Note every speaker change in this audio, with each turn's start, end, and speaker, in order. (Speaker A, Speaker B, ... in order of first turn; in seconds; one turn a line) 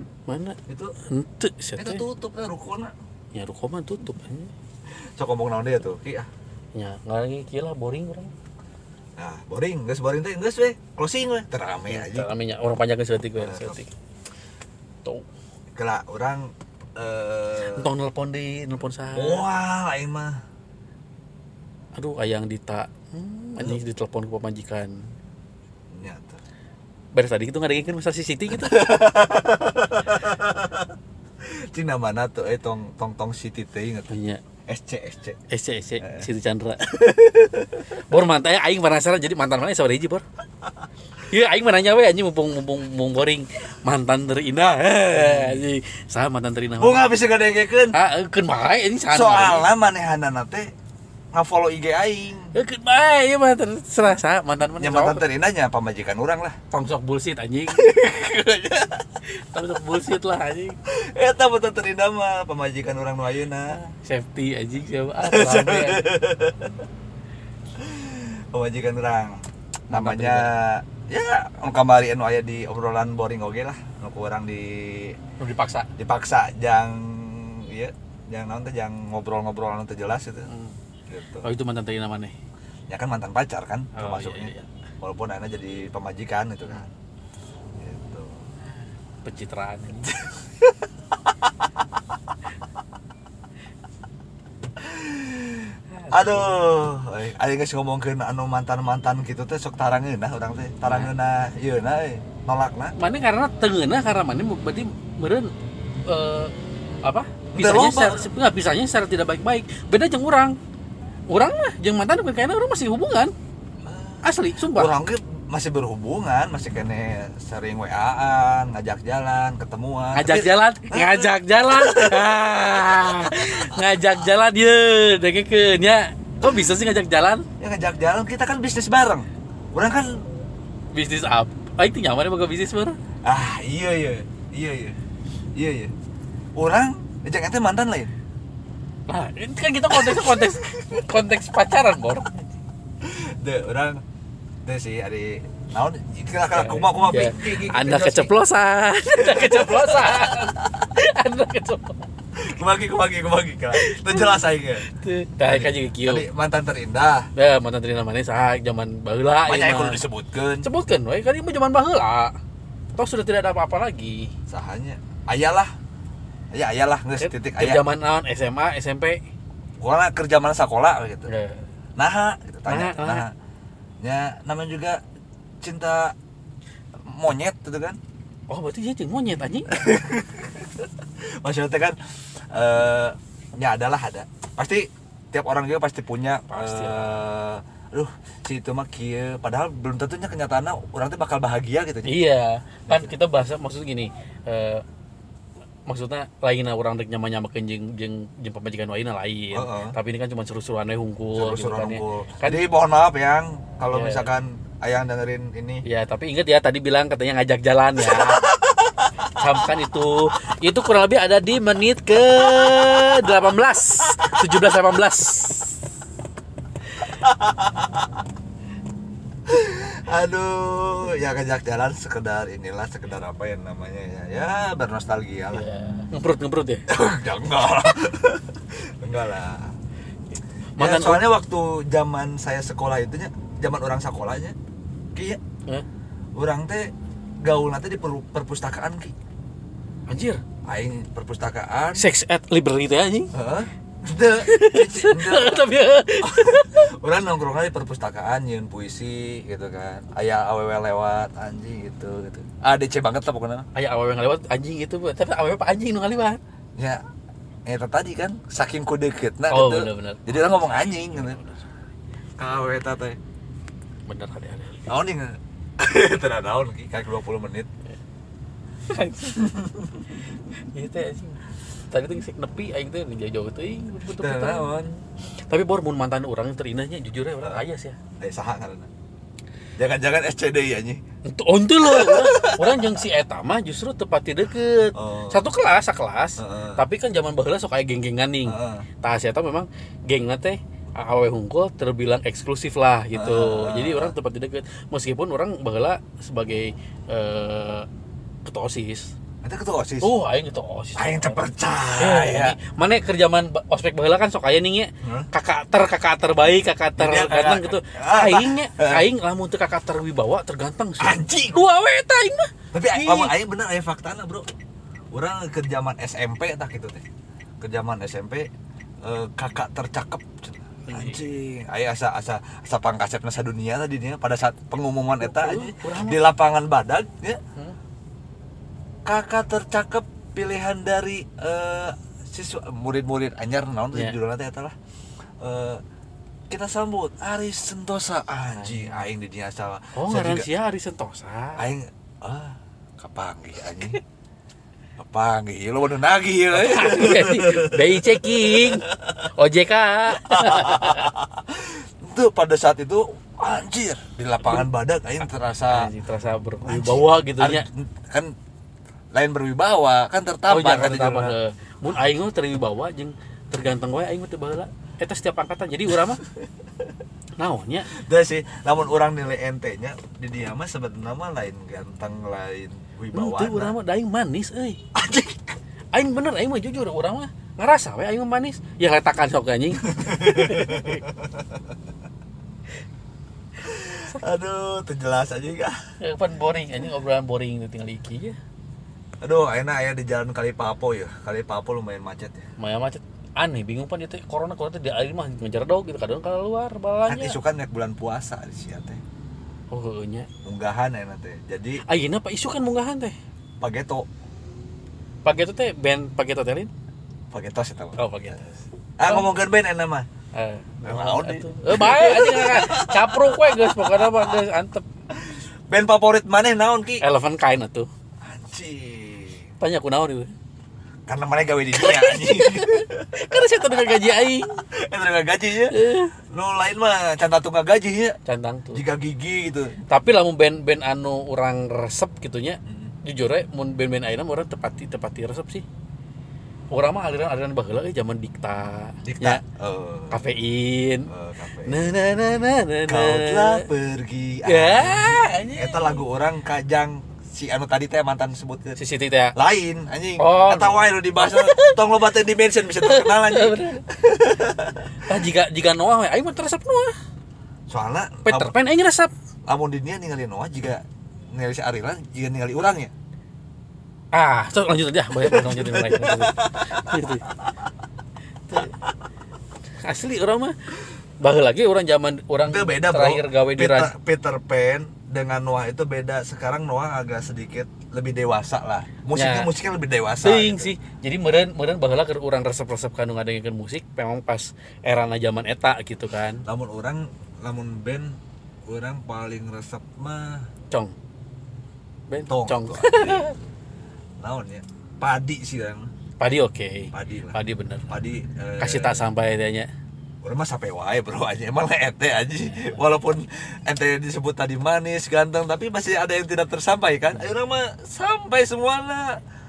Speaker A: 0.3-2.0
Speaker B: 0.7-0.9
Speaker B: 1.8-2.9
Speaker A: 3.3-4.5
Speaker B: 5.2-6.3
Speaker A: 6.7-8.3
Speaker B: 9.2-12.3
Speaker A: 11.9-13.9
Speaker B: 13.4-13.8
Speaker B: 15.7-17.9
Speaker A: 17.6-19.4
Speaker B: 19.1-20.4
Speaker A: 21.9-25.0
Speaker B: 25.9-26.4
Speaker A: 27.1-28.9
Speaker B: 28.5-34.1
Speaker A: 34.1-34.4
Speaker B: 34.7-35.4
Speaker A: 35.5-36.9
Speaker B: 36.0-36.3
Speaker B: 36.8-37.8
Speaker A: 38.1-40.2
Speaker A: 41.3-47.1
Speaker B: 45.1-45.6
Speaker B: 46.8-48.0
Speaker A: 47.9-49.7
Speaker B: 49.1-50.7
Speaker B: 51.3-52.5
Speaker A: 52.5-55.2
Speaker B: 54.8-56.6
Speaker A: 56.7-57.9
Speaker B: 57.7-59.1
Speaker A: 59.3-60.8
Speaker B: 60.9-63.8
Speaker A: 63.7-66.0
Speaker B: 65.2-66.7
Speaker B: 67.8-75.2
Speaker A: 69.9-70.5
Speaker A: 75.4-75.9
Speaker B: 76.0-80.5
Speaker A: 80.5-80.7
Speaker B: 81.1-81.5
Speaker A: 81.4-82.3
Speaker B: 82.9-86.9
Speaker A: 83.9-84.7
Speaker B: 87.8-88.4
Speaker A: 89.2-90.4
Speaker B: 94.8-102.9
Speaker A: 95.9-96.6
Speaker A: 100.8-101.1
Speaker A: 103.0-105.5
Speaker A: 106.0-106.5
Speaker A: 107.0-110.6
Speaker B: 107.5-108.3
Speaker A: 111.3-113.3
Speaker B: 113.8-123.3
Speaker A: 114.2-114.9
Speaker A: 120.1-127.5
Speaker B: 127.6-130.2
Speaker A: 130.9-133.0
Speaker B: 133.2-134.9
Speaker B: 135.5-135.9
Speaker B: 136.6-138.1
Speaker A: 139.1-142.4
Speaker B: 139.9-141.1
Speaker B: 143.0-144.0
Speaker B: 144.6-148.3
Speaker A: 146.5-152.0
Speaker B: 149.1-150.6
Speaker B: 152.3-154.8
Speaker A: 153.8-156.2
Speaker B: 155.4-157.3
Speaker A: 157.3-160.0
Speaker B: 159.4-160.7
Speaker A: 160.6-162.3
Speaker A: 162.9-164.3
Speaker B: 164.5-165.7
Speaker B: 166.5-167.8
Speaker A: 167.2-169.2
Speaker B: 169.8-171.3
Speaker A: 171.3-171.6
Speaker B: 172.0-173.3
Speaker A: 172.7-173.2
Speaker B: 174.0-175.0
Speaker B: 175.6-176.1
Speaker B: 177.1-178.0
Speaker A: 178.5-179.7
Speaker B: 179.7-180.9
Speaker B: 181.4-181.9
Speaker B: 182.5-192.1
Speaker A: 186.5-187.2
Speaker A: 192.1-194.8
Speaker A: 195.9-202.7
Speaker B: 199.5-199.9
Speaker B: 201.3-205.8
Speaker A: 203.9-204.3
Speaker A: 205.8-208.5
Speaker B: 208.0-209.0
Speaker A: 209.4-215.8
Speaker B: 212.4-212.8
Speaker B: 217.2-218.1
Speaker B: 219.4-225.6
Speaker A: 225.5-226.8
Speaker B: 226.9-229.7
Speaker A: 230.8-231.2
Speaker B: 230.8-234.6
Speaker B: 235.1-235.4
Speaker B: 236.3-239.1
Speaker A: 240.1-240.4
Speaker B: 240.7-242.1
Speaker A: 241.9-243.3
Speaker B: 243.3-253.7
Speaker A: 244.4-246.9
Speaker A: 253.7-256.4
Speaker B: 257.6-261.4
Speaker A: 259.5-261.6
Speaker B: 262.4-263.2
Speaker A: 264.1-264.9
Speaker B: 264.9-267.7
Speaker A: 268.9-269.5
Speaker B: 269.3-270.0
Speaker A: 270.7-274.7
Speaker B: 274.2-275.0
Speaker A: 275.5-278.0
Speaker B: 278.2-278.9
Speaker B: 279.8-281.0
Speaker A: 281.2-297.9
Speaker B: 281.8-283.0
Speaker B: 284.9-285.4
Speaker B: 286.4-286.8
Speaker B: 288.4-288.8
Speaker B: 293.1-294.1
Speaker A: 298.4-299.1
Speaker B: 299.4-300.1
Speaker A: 300.0-301.4
Speaker B: 300.9-302.6
Speaker A: 302.0-313.3
Speaker B: 305.0-305.3
Speaker B: 307.0-309.1
Speaker B: 311.0-311.6
Speaker B: 312.7-314.5
Speaker B: 315.1-317.0
Speaker B: 317.6-318.5
Speaker B: 319.0-327.4
Speaker A: 320.9-321.2
Speaker A: 325.2-326.2
Speaker B: 329.0-334.7
Speaker B: 335.4-335.8
Speaker B: 336.5-340.5
Speaker A: 338.6-339.0
Speaker A: 339.9-341.6
Speaker B: 341.6-344.0
Speaker B: 345.0-349.2
Speaker A: 346.5-351.1
Speaker B: 350.1-355.9
Speaker A: 355.7-357.6
Speaker B: 356.6-358.3
Speaker B: 359.1-361.3
Speaker A: 360.5-366.2
Speaker A: 367.4-367.9
Speaker B: 367.9-373.7
Speaker A: 373.1-374.8
Speaker B: 374.9-375.5
Speaker A: 375.9-381.0
Speaker B: 379.9-381.6
Speaker B: 383.6-385.8
Speaker A: 386.0-388.4
Speaker B: 389.2-392.4
Speaker A: 392.6-397.4
Speaker B: 397.1-399.0
Speaker A: 399.7-400.3
Speaker B: 400.4-401.8
Speaker A: 401.8-403.1
Speaker B: 403.6-404.1
Speaker A: 405.2-406.7
Speaker B: 407.3-408.0
Speaker A: 408.0-409.3
Speaker B: 409.0-410.1
Speaker A: 410.3-414.8
Speaker B: 410.8-414.2
Speaker B: 415.1-417.0
Speaker A: 417.0-417.9
Speaker B: 418.2-419.5
Speaker A: 419.6-420.3
Speaker B: 421.1-423.4
Speaker A: 421.8-424.6
Speaker B: 424.7-428.2
Speaker A: 425.7-426.1
Speaker A: 428.2-428.8
Speaker B: 428.7-429.7
Speaker A: 429.9-435.6
Speaker B: 432.7-432.9
Speaker A: 436.7-439.4
Speaker B: 439.0-440.2
Speaker A: 440.1-441.1
Speaker B: 441.1-441.9
Speaker A: 441.6-443.6
Speaker B: 442.9-448.8
Speaker A: 444.4-446.0
Speaker A: 448.8-449.3
Speaker B: 449.3-454.9
Speaker A: 450.2-451.8
Speaker A: 452.8-453.8
Speaker A: 455.0-456.9
Speaker B: 457.7-458.5
Speaker A: 458.2-459.1
Speaker B: 459.5-462.9
Speaker A: 464.1-467.2
Speaker B: 465.2-467.1
Speaker A: 469.8-470.5
Speaker A: 471.2-473.9
Speaker B: 472.4-480.7
Speaker A: 479.1-479.5
Speaker A: 480.2-486.4
Speaker B: 486.4-490.5
Speaker A: 492.1-493.3
Speaker B: 492.3-493.3
Speaker B: 494.2-495.9
Speaker A: 496.2-497.9
Speaker B: 496.9-497.4
Speaker B: 497.9-499.1
Speaker A: 498.6-499.7
Speaker B: 500.2-509.2